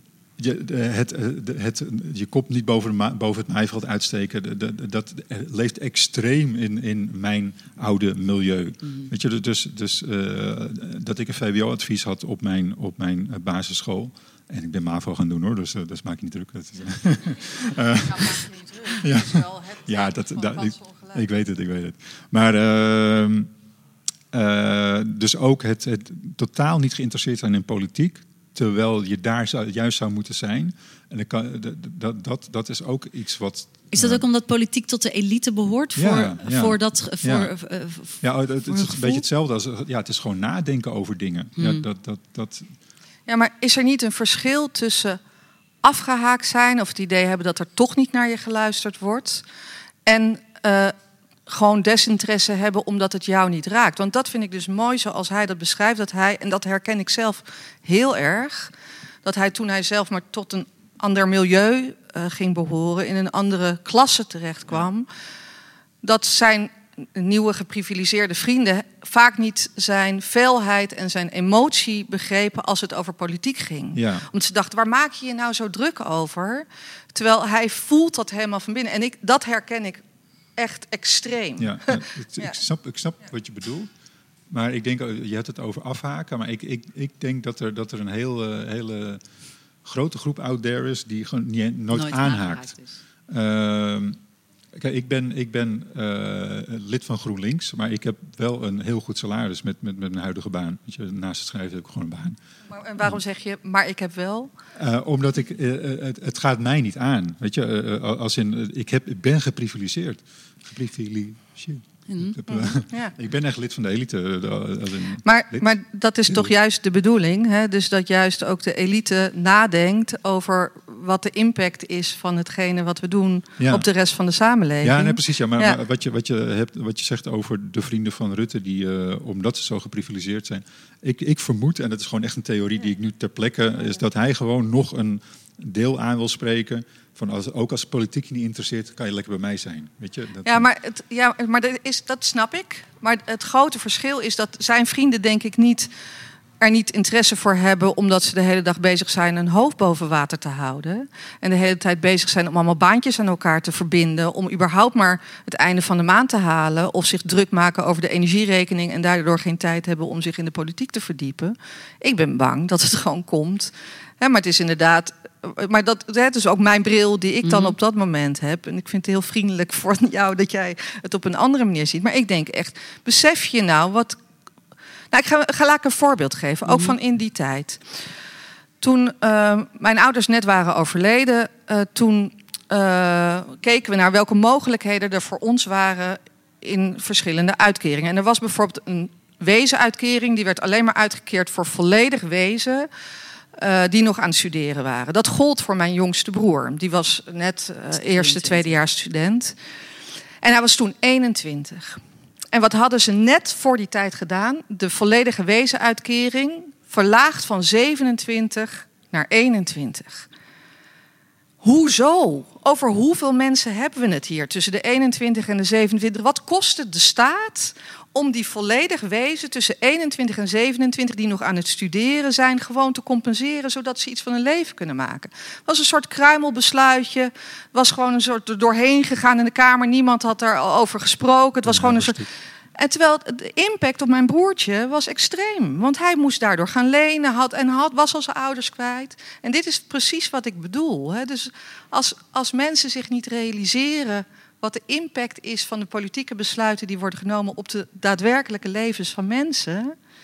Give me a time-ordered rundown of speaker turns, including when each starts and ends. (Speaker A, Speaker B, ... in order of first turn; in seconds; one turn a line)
Speaker A: 0.4-23.5
Speaker B: 17.9-21.2
Speaker A: 24.3-34.2
Speaker C: 33.9-39.2
Speaker A: 36.0-37.5
Speaker A: 38.2-42.7
Speaker C: 41.6-41.9
Speaker B: 43.3-45.2
Speaker B: 45.8-49.4
Speaker B: 50.1-50.9
Speaker B: 51.5-58.7
Speaker B: 59.2-65.1
Speaker B: 66.0-80.0
Speaker A: 74.0-74.3
Speaker B: 80.6-82.5
Speaker A: 81.6-83.9
Speaker A: 84.5-89.2
Speaker A: 89.8-92.7
Speaker C: 91.9-93.0
Speaker A: 93.3-94.2
Speaker A: 94.8-102.4
Speaker B: 102.7-104.5
Speaker A: 104.8-115.7
Speaker C: 112.1-112.4
Speaker B: 112.5-113.1
Speaker B: 115.2-125.8
Speaker A: 123.6-123.9
Speaker A: 124.8-140.7
Speaker B: 140.4-145.9
Speaker B: 146.6-174.2
Speaker C: 167.4-167.8
Speaker B: 175.1-177.8
Speaker C: 176.7-177.0
Speaker B: 178.8-192.9
Speaker B: 193.6-199.6
Speaker C: 198.0-198.7
Speaker B: 200.4-202.0
Speaker B: 202.5-210.3
Speaker B: 211.6-249.9
Speaker A: 231.7-232.3